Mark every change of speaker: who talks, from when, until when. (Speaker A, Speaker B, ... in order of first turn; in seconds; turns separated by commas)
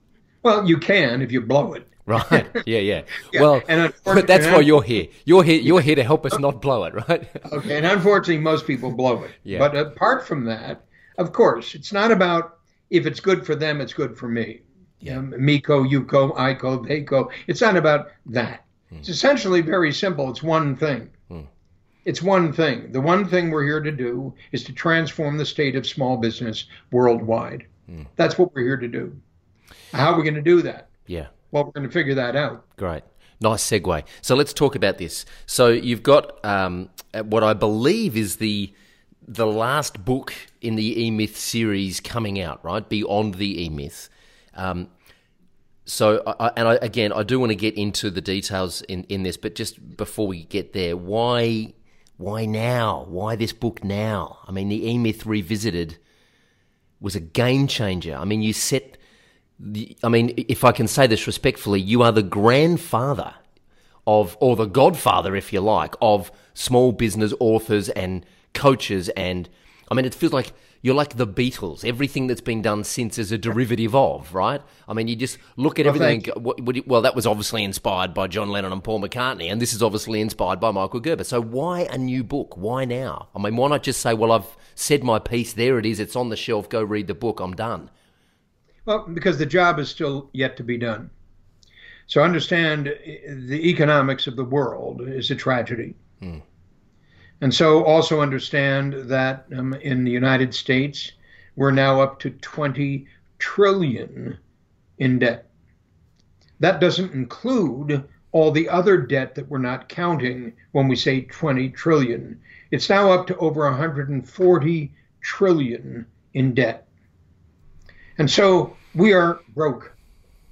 Speaker A: 0.4-2.6, Speaker B: 2.1-7.4, Speaker A: 3.3-4.7, Speaker A: 7.4-21.1, Speaker B: 9.4-9.7, Speaker A: 22.1-29.2, Speaker A: 29.9-30.9, Speaker B: 31.1-31.3, Speaker A: 31.5-32.6, Speaker B: 32.8-38.7, Speaker B: 39.2-44.9, Speaker B: 45.9-56.0, Speaker B: 57.0-59.0, Speaker B: 59.6-63.4, Speaker B: 64.0-87.9, Speaker A: 75.8-76.2, Speaker A: 88.9-91.1, Speaker A: 92.1-96.0, Speaker A: 97.4-104.4, Speaker A: 105.0-105.5, Speaker A: 106.6-116.9, Speaker A: 118.2-120.0